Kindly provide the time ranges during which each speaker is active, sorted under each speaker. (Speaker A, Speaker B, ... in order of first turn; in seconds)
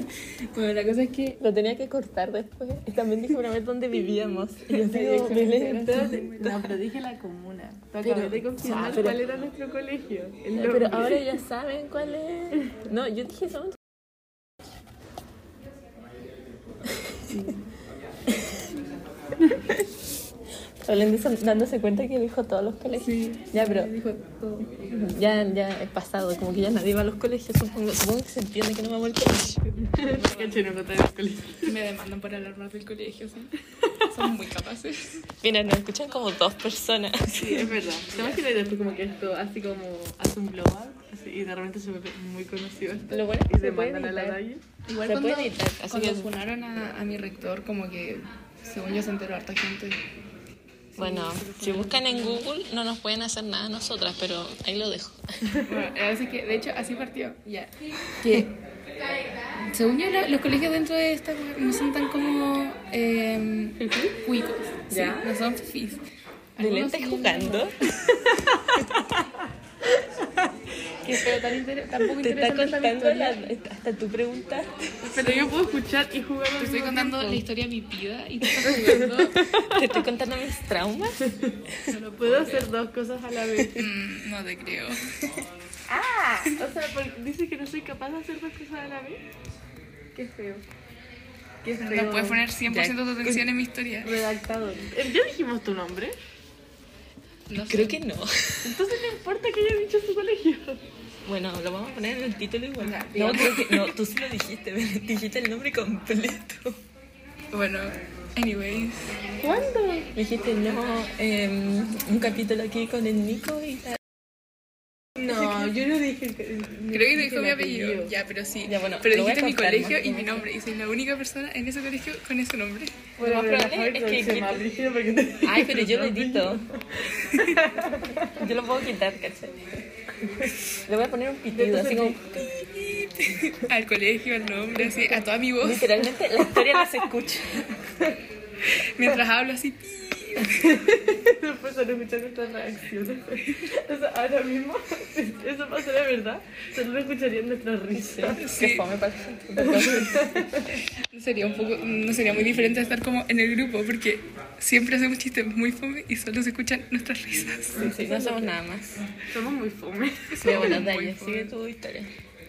Speaker A: 0.5-1.4, 5.8-6.6, 23.0-24.7, 30.0-30.6, 31.6-33.5, 34.1-35.2, 44.9-50.0, 51.2-52.4, 55.6-58.5, 59.7-66.0, 66.5-67.9, 71.2-73.0, 75.1-75.5, 76.6-79.5, 81.9-82.7, 83.7-85.3, 91.8-94.2, 97.5-98.0, 102.9-103.8, 107.5-109.1, 116.9-123.1, 127.3-127.6, 132.4-136.0, 138.8-140.6, 148.4-148.9, 149.7-150.1, 151.1-157.9, 160.3-161.5
Speaker B: 1.4-6.7, 8.0-9.2, 10.5-13.8, 18.3-18.6, 20.8-23.9, 24.9-29.9, 35.4-37.7, 43.1-44.4, 45.0-46.3, 51.0-55.5, 66.6-67.9, 72.2-74.9, 79.6-81.2, 92.7-93.4, 97.7-98.8, 101.2-106.8, 110.1-114.0, 118.7-120.5, 123.2-124.7, 125.4-126.6, 128.2-129.6, 130.2-132.2, 135.6-137.7, 147.9-150.3, 157.7-159.0, 160.4-162.1
Speaker C: 4.7-11.2, 17.3-17.6, 29.8-31.7, 37.4-44.6, 51.0-51.9, 63.8-64.2, 64.9-65.2, 68.6-69.0, 71.0-73.3, 75.0-77.4, 78.7-79.8, 82.2-83.9, 85.9-89.2, 90.1-90.6, 91.6-92.4, 94.0-96.2, 98.6-100.8, 102.8-103.6, 109.4-110.1, 115.2-118.1, 123.2-128.4, 131.5-132.4, 140.5-148.4, 149.6-150.8, 157.8-158.5, 159.3-160.9